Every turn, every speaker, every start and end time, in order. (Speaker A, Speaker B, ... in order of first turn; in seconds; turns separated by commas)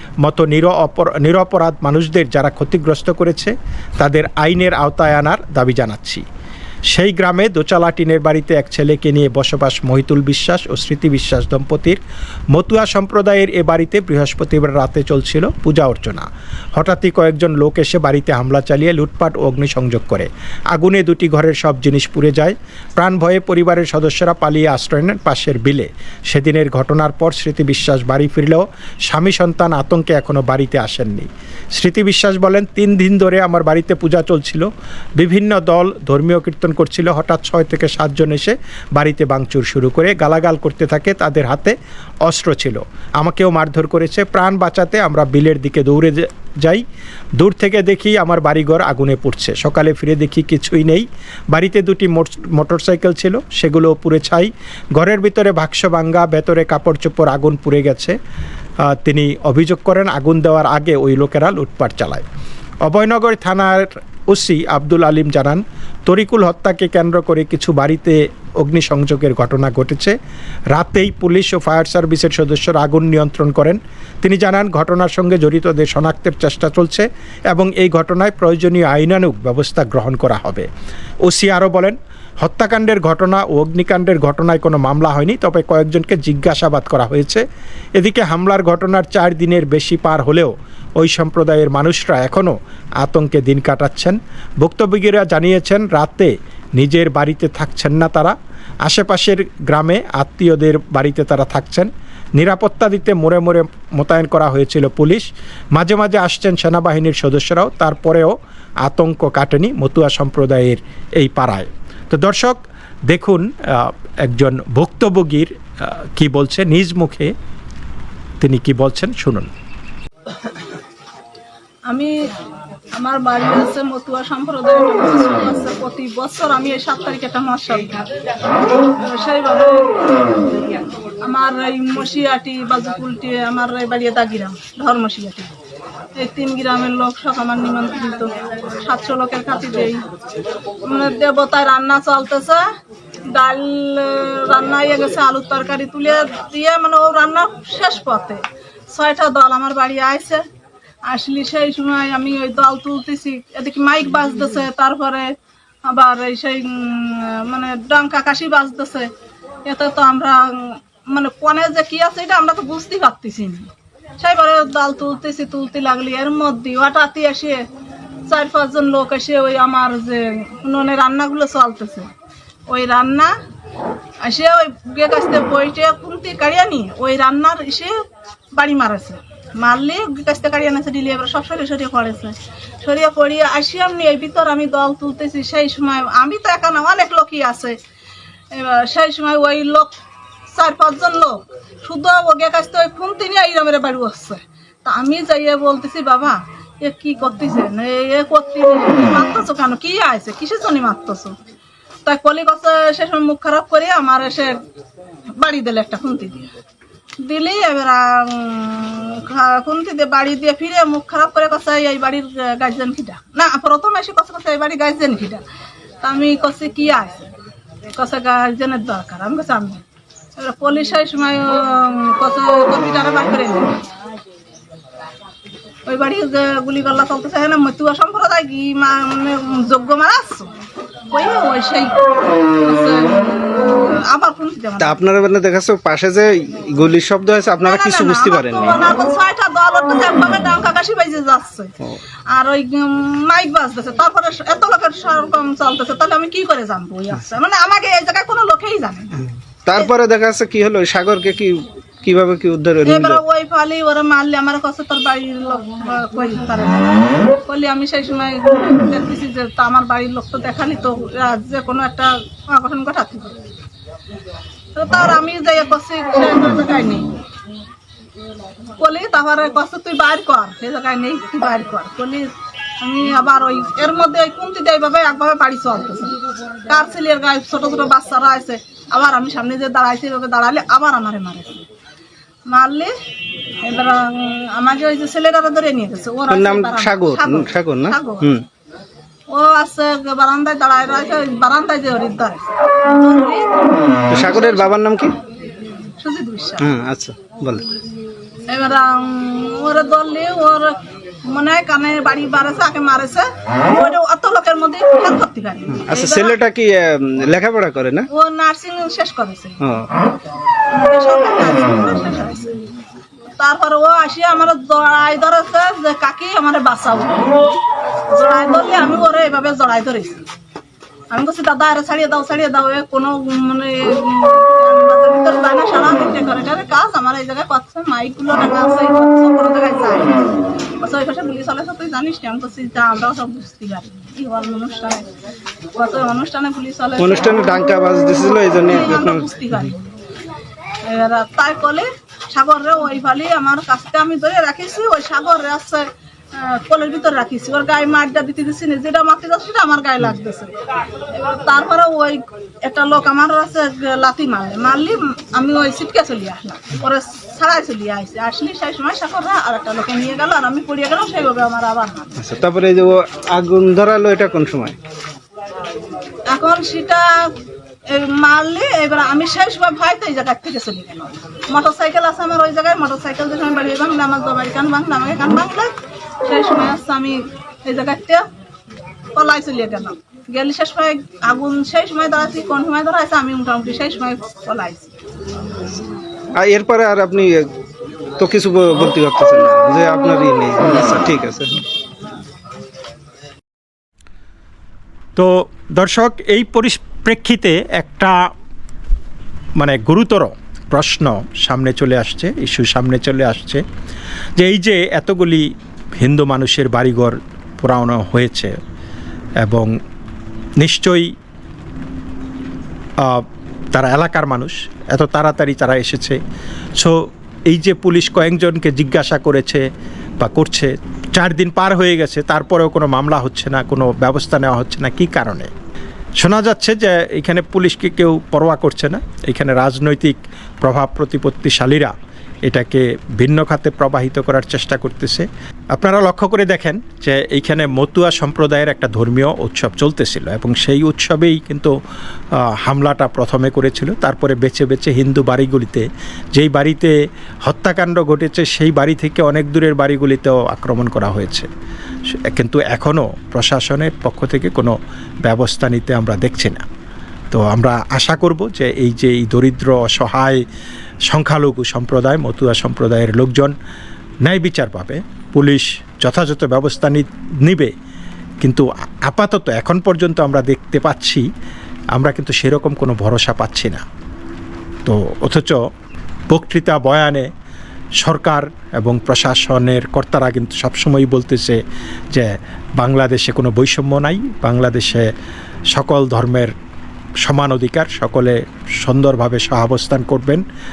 Speaker A: 0.2-6.2, Speaker A: 6.9-12.0, Speaker A: 12.5-41.8, Speaker A: 42.3-46.8, Speaker A: 47.4-58.2, Speaker A: 58.9-62.2, Speaker A: 62.9-70.1, Speaker A: 70.7-80.7, Speaker A: 81.3-87.4, Speaker A: 88.0-117.3, Speaker A: 118.4-119.5, Speaker B: 121.9-122.1, Speaker B: 123.0-135.5, Speaker B: 136.2-140.1, Speaker B: 140.8-142.7, Speaker B: 143.3-150.4, Speaker B: 151.1-155.3, Speaker B: 155.9-159.1, Speaker B: 159.7-167.6, Speaker B: 168.3-172.1, Speaker B: 172.7-173.3, Speaker B: 174.2-177.9, Speaker B: 178.6-187.8, Speaker B: 188.5-189.9, Speaker B: 190.5-201.4, Speaker B: 202.1-204.6, Speaker B: 205.4-206.5, Speaker B: 207.2-215.4, Speaker B: 216.0-217.3, Speaker B: 217.9-219.8, Speaker B: 220.4-223.8, Speaker B: 225.9-230.5, Speaker B: 231.1-235.0, Speaker C: 234.8-238.8, Speaker B: 237.6-241.8, Speaker B: 242.3-249.3, Speaker C: 249.7-253.2, Speaker B: 252.8-263.4, Speaker B: 264.8-267.1, Speaker B: 268.8-281.6, Speaker B: 282.5-282.9, Speaker B: 283.6-288.3, Speaker C: 286.3-288.4, Speaker B: 289.3-294.8, Speaker C: 294.1-295.1, Speaker B: 296.0-296.7, Speaker C: 296.6-297.7, Speaker B: 298.5-306.4, Speaker C: 305.8-308.1, Speaker B: 308.1-309.6, Speaker C: 309.6-309.9, Speaker B: 310.7-312.6, Speaker B: 313.4-317.5, Speaker B: 318.1-320.2, Speaker B: 321.1-330.2, Speaker B: 330.8-335.1, Speaker B: 335.8-337.4, Speaker C: 337.0-339.6, Speaker B: 338.6-339.9, Speaker B: 340.8-350.5, Speaker B: 351.1-362.1, Speaker C: 362.2-364.8, Speaker B: 366.3-367.4, Speaker B: 367.9-378.3, Speaker B: 379.1-384.9, Speaker C: 386.4-387.5, Speaker C: 388.2-391.6, Speaker A: 395.2-398.3, Speaker A: 399.6-403.6, Speaker A: 404.4-408.5, Speaker A: 409.4-409.7, Speaker A: 410.6-411.1, Speaker A: 413.0-416.2, Speaker A: 416.8-419.6, Speaker A: 420.2-425.5, Speaker A: 426.2-431.9, Speaker A: 432.5-441.7, Speaker A: 442.5-446.9, Speaker A: 447.4-451.5, Speaker A: 452.1-456.6, Speaker A: 457.3-460.4, Speaker A: 461.1-463.6, Speaker A: 464.2-467.7, Speaker A: 468.4-471.3, Speaker A: 471.9-473.8, Speaker A: 474.9-475.6, Speaker A: 476.3-477.3, Speaker A: 478.0-481.6, Speaker A: 482.1-485.1, Speaker A: 485.7-486.5, Speaker A: 487.2-490.4